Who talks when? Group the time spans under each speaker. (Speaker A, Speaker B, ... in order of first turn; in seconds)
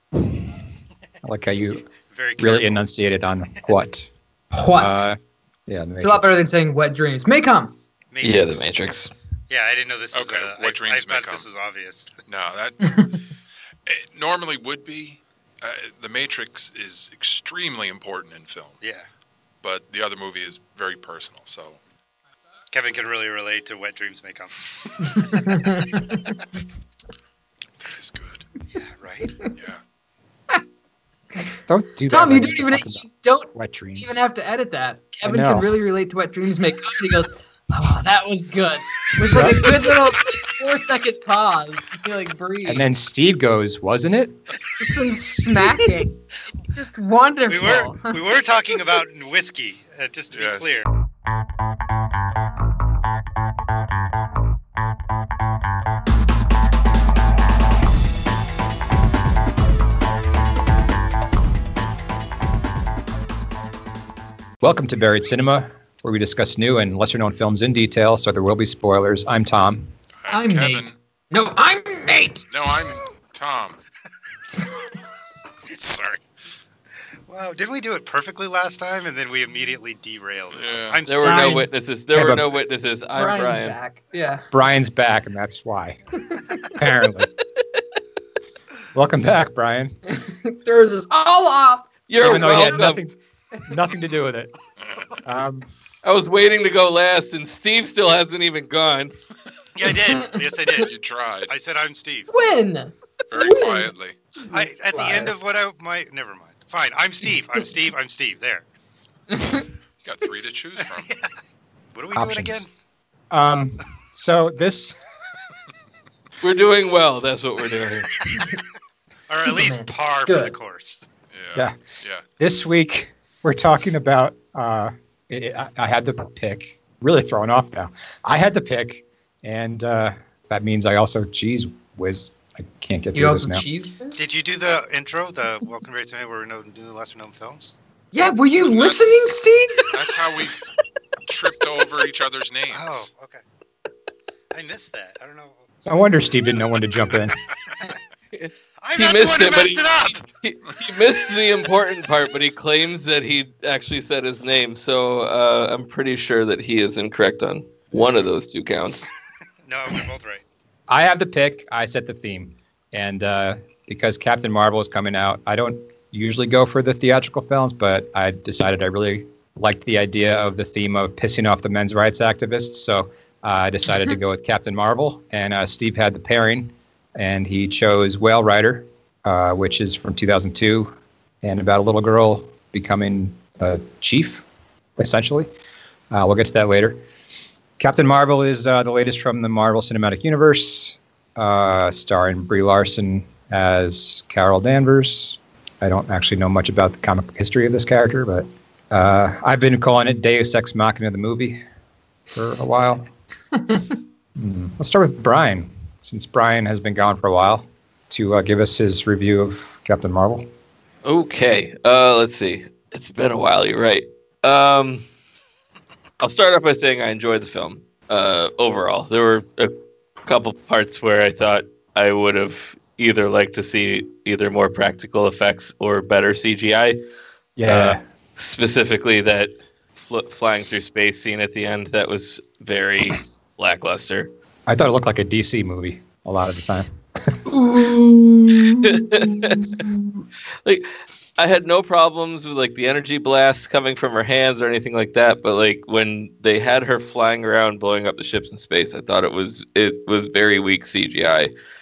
Speaker A: 0.1-0.5, 1.2-1.9, 2.4-4.1, 4.8-6.4, 31.7-34.2, 35.2-35.7, 39.3-39.8, 42.6-44.4, 64.6-69.9, 82.1-82.4, 84.5-86.0, 86.7-87.3, 88.9-89.9, 92.2-93.1, 93.7-94.5, 95.2-95.7, 112.1-112.7, 113.3-115.0, 121.5-121.8, 122.4-133.7, 145.8-147.4, 160.9-184.4, 185.0-185.5, 186.1-187.0, 187.8-201.6, 202.3-203.1, 204.3-210.4, 227.6-228.0, 234.7-240.1
Speaker B: 2.1-2.8, 8.1-8.7, 9.5-12.1, 18.8-19.1, 22.7-24.5, 28.7-29.4, 47.5-50.8, 77.3-81.6, 99.7-100.9, 101.5-102.3, 104.5-108.7, 111.0-111.3, 111.9-112.7, 119.3-121.1, 134.2-137.7, 142.7-143.4, 144.5-145.7, 148.8-150.2, 159.6-160.4
Speaker C: 4.5-5.0, 6.0-7.7, 25.0-26.2, 32.1-42.8, 44.8-46.2, 46.7-48.2, 70.3-72.5, 81.2-81.7, 83.2-84.4, 86.3-86.6, 90.1-91.9, 100.1-100.3, 102.3-105.3, 109.3-109.6, 119.5-120.5, 133.1-134.2, 138.1-139.9, 203.6-203.9, 237.5-238.2
Speaker D: 8.2-9.1, 81.0-83.8, 92.1-93.0, 96.0-99.1, 116.4-118.2, 148.3-159.1, 211.0-215.0, 216.2-219.7, 220.2-227.0, 227.7-234.3, 238.8-239.8, 241.4-251.5
Speaker E: 10.1-11.5, 12.3-13.2, 13.8-18.8, 19.6-21.8, 27.8-28.5, 29.5-29.8, 50.3-50.8, 70.2-71.0, 72.5-73.8, 75.7-76.2, 80.5-81.0, 94.8-95.2, 100.8-101.5, 103.3-104.2, 110.0-111.1, 121.3-122.2, 138.6-139.3, 139.9-140.6, 141.2-143.1